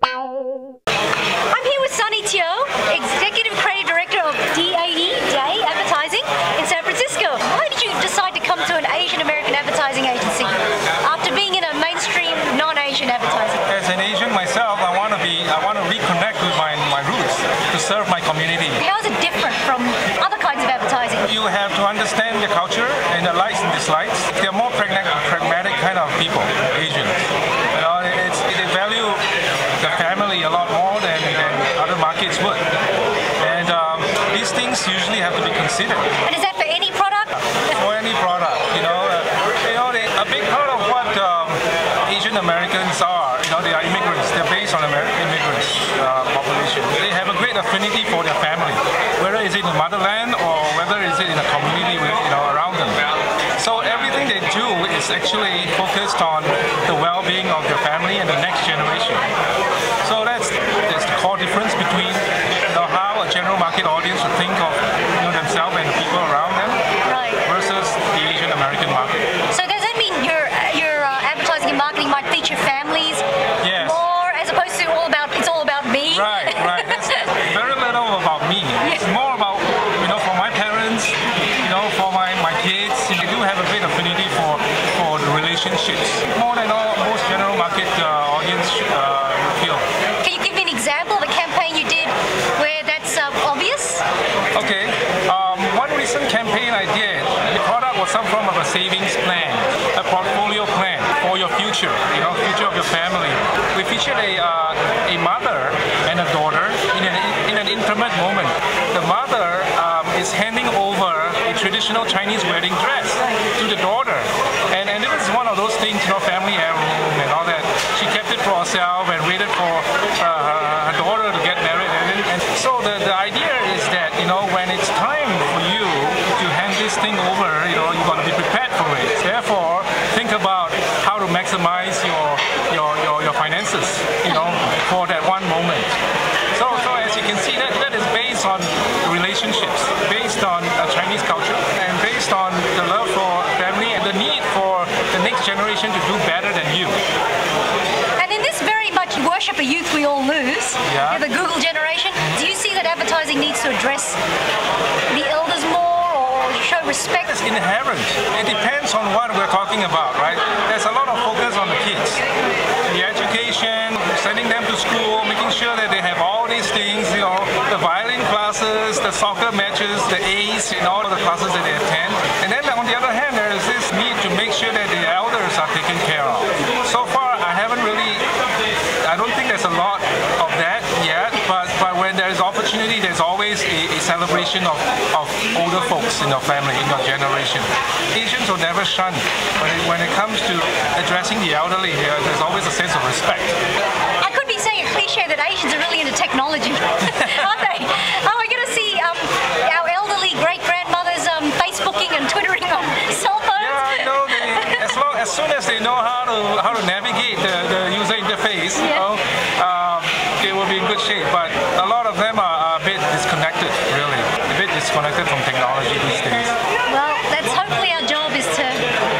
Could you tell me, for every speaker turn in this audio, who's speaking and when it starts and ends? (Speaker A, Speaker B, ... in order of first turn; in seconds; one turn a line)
Speaker A: 1.5-13.6
Speaker B: 13.7-18.8
Speaker A: 18.8-21.3
Speaker B: 21.2-29.2
Speaker B: 29.8-32.7
Speaker B: 33.4-36.1
Speaker A: 36.2-37.4
Speaker B: 37.6-59.3
Speaker B: 60.0-66.8
Speaker A: 67.0-67.4
Speaker B: 67.5-69.2
Speaker A: 69.5-77.3
Speaker B: 73.6-74.0
Speaker B: 76.1-89.8
Speaker A: 90.2-94.0
Speaker B: 94.5-135.9
Speaker B: 136.5-147.0
Speaker A: 148.2-154.2
Speaker B: 150.8-151.2
Speaker A: 155.1-157.3
Speaker B: 157.2-162.2
Speaker B: 162.8-178.2
Speaker B: 179.0-193.6
Speaker A: 194.2-204.9
Speaker B: 197.1-197.6
Speaker B: 203.6-216.6
Speaker A: 208.8-209.1
Speaker A: 216.8-218.8